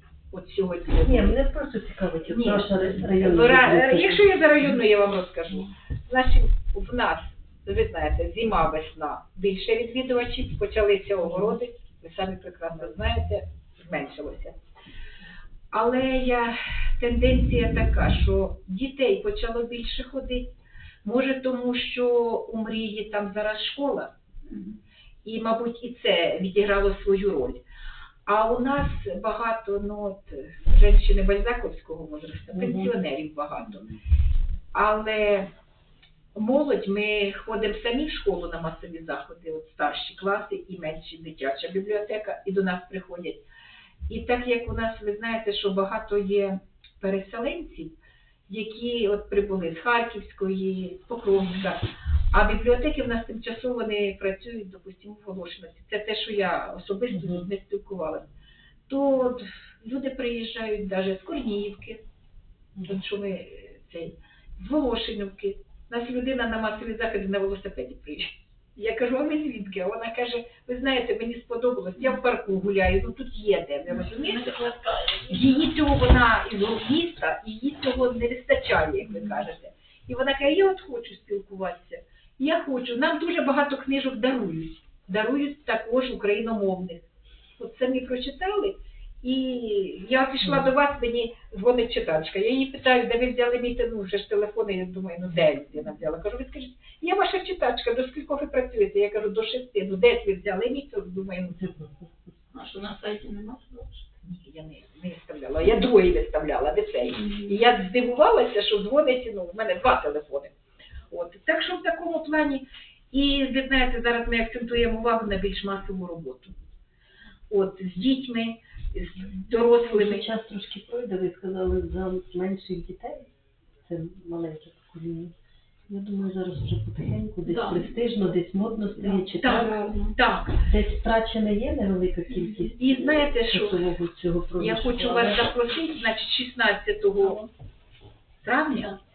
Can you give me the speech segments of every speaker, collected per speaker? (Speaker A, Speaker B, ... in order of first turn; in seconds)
Speaker A: 0.3-1.4, 2.3-14.6, 15.7-20.5, 21.0-24.1, 25.2-27.6, 28.3-33.9, 34.7-35.5, 36.4-43.4, 44.1-48.0, 48.5-51.8, 52.3-58.3, 58.9-62.0, 62.8-74.7, 75.3-87.0, 87.6-101.6, 104.2-110.5, 111.1-116.5, 117.5-120.3, 129.4-130.6, 132.8-133.8, 134.6-137.4, 138.4-138.9
Speaker B: 1.0-4.7, 32.5-32.9, 57.1-57.5, 90.4-90.7, 101.6-102.1, 119.7-123.3, 123.8-125.3, 125.9-129.7, 130.6-135.5
Speaker C: 24.5-24.8, 73.9-75.7, 79.0-79.5, 102.5-104.0, 107.2-107.6, 127.4-130.2, 132.3-132.8, 138.7-139.0